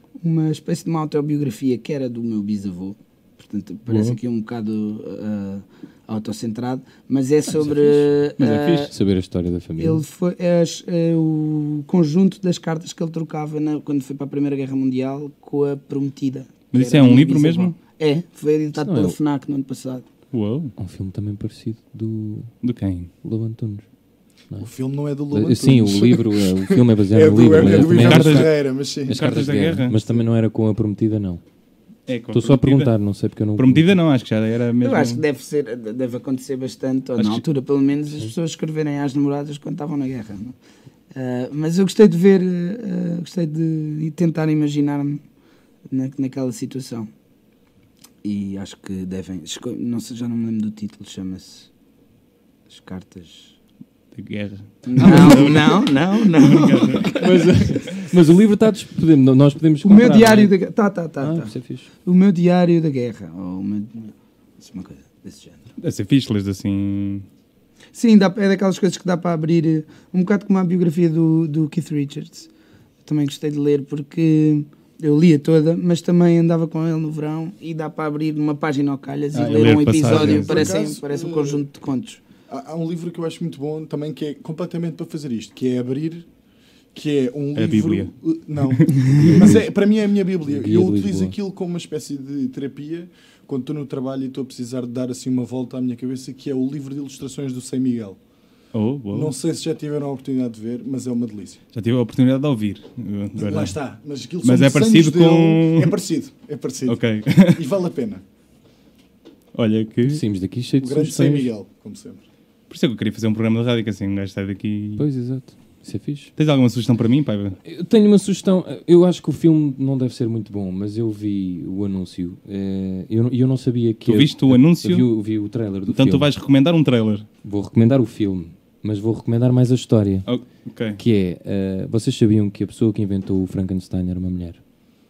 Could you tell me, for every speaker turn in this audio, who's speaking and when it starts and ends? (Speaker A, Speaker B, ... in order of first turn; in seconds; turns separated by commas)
Speaker A: 0.2-8.9, Speaker B: 3.9-4.2, Speaker C: 7.5-10.0, Speaker A: 9.8-20.1, Speaker B: 16.7-17.8, Speaker C: 18.8-19.2, Speaker B: 20.3-20.7, Speaker C: 20.8-22.5, Speaker B: 22.6-23.1, Speaker C: 23.2-23.9, Speaker D: 24.6-29.2, Speaker C: 25.3-31.4, Speaker B: 27.5-29.9, Speaker B: 32.1-32.9, Speaker C: 32.3-34.0, Speaker B: 33.6-35.2, Speaker A: 34.8-40.5, Speaker B: 37.2-37.4, Speaker A: 41.1-45.2, Speaker A: 45.9-47.1, Speaker A: 48.2-51.7, Speaker A: 52.7-53.5, Speaker B: 54.1-57.2, Speaker A: 54.9-57.6, Speaker C: 55.0-55.7, Speaker C: 57.1-60.6, Speaker A: 59.8-65.7, Speaker C: 61.2-61.9, Speaker B: 65.8-67.2, Speaker A: 67.9-72.5, Speaker A: 73.0-82.2, Speaker B: 79.3-80.7, Speaker D: 79.6-81.7, Speaker D: 82.5-86.3, Speaker D: 86.9-98.2, Speaker B: 87.6-88.9, Speaker C: 89.2-89.7, Speaker C: 90.5-91.4, Speaker B: 98.7-99.3, Speaker D: 99.1-101.6, Speaker B: 101.7-103.8, Speaker D: 103.4-108.2, Speaker B: 104.4-105.9, Speaker B: 106.9-107.6, Speaker B: 109.5-110.2, Speaker C: 110.0-111.5, Speaker D: 110.8-112.2, Speaker B: 112.7-115.0, Speaker C: 115.0-116.3, Speaker B: 116.4-117.6, Speaker C: 117.6-126.3, Speaker B: 124.0-125.1, Speaker B: 125.9-127.3, Speaker C: 127.4-130.3, Speaker B: 130.3-131.0, Speaker C: 131.0-134.6